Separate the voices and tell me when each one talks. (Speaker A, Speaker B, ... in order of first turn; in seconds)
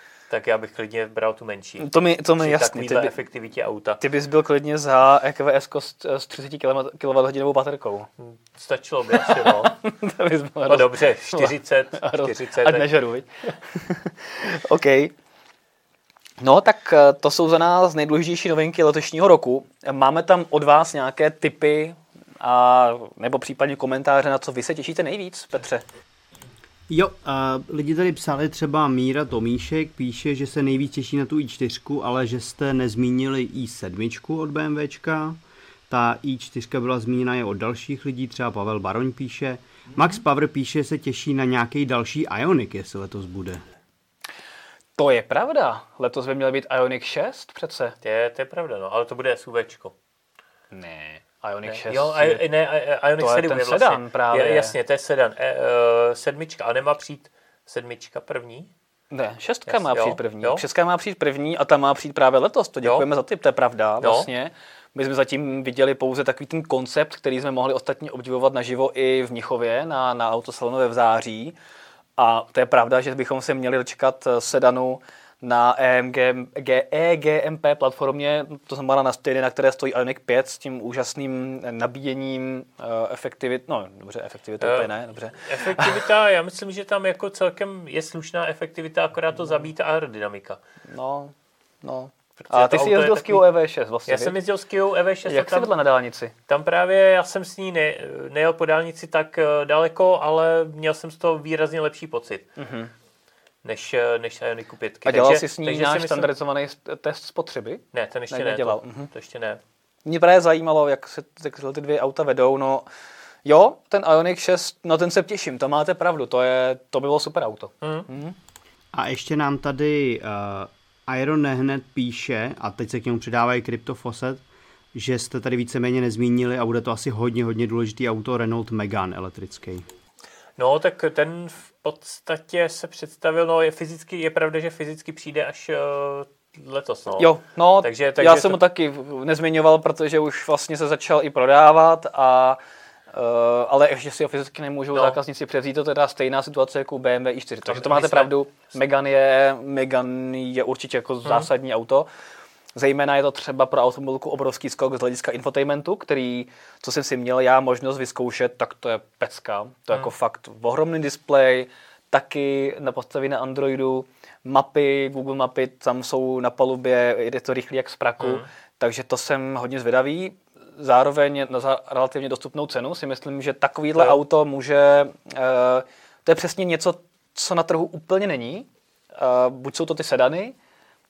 Speaker A: 0.3-1.9, 2.4-4.0, 8.2-9.7, 10.7-12.8, 48.0-49.9, 51.7-58.7, 59.7-60.6, 64.0-64.3, 84.6-90.6, 92.4-93.5, 94.1-95.7, 96.5-102.5, 103.6-106.3, 107.9-109.6, 117.8-118.1, 130.6-138.6, 147.7-148.3, 168.2-168.4, 173.9-174.2
Speaker B: 1.8-3.1, 4.0-8.1, 9.2-15.1, 16.4-25.8, 45.0-47.9, 50.7-52.4, 53.2-54.7, 59.1-71.5, 72.2-86.0, 90.9-94.3, 95.3-96.3, 102.6-102.9, 105.0-109.1, 110.0-112.8, 113.4-118.3, 137.2-142.6, 143.1-152.1, 152.7-180.6
Speaker C: 26.9-43.6, 118.9-124.4, 124.9-129.8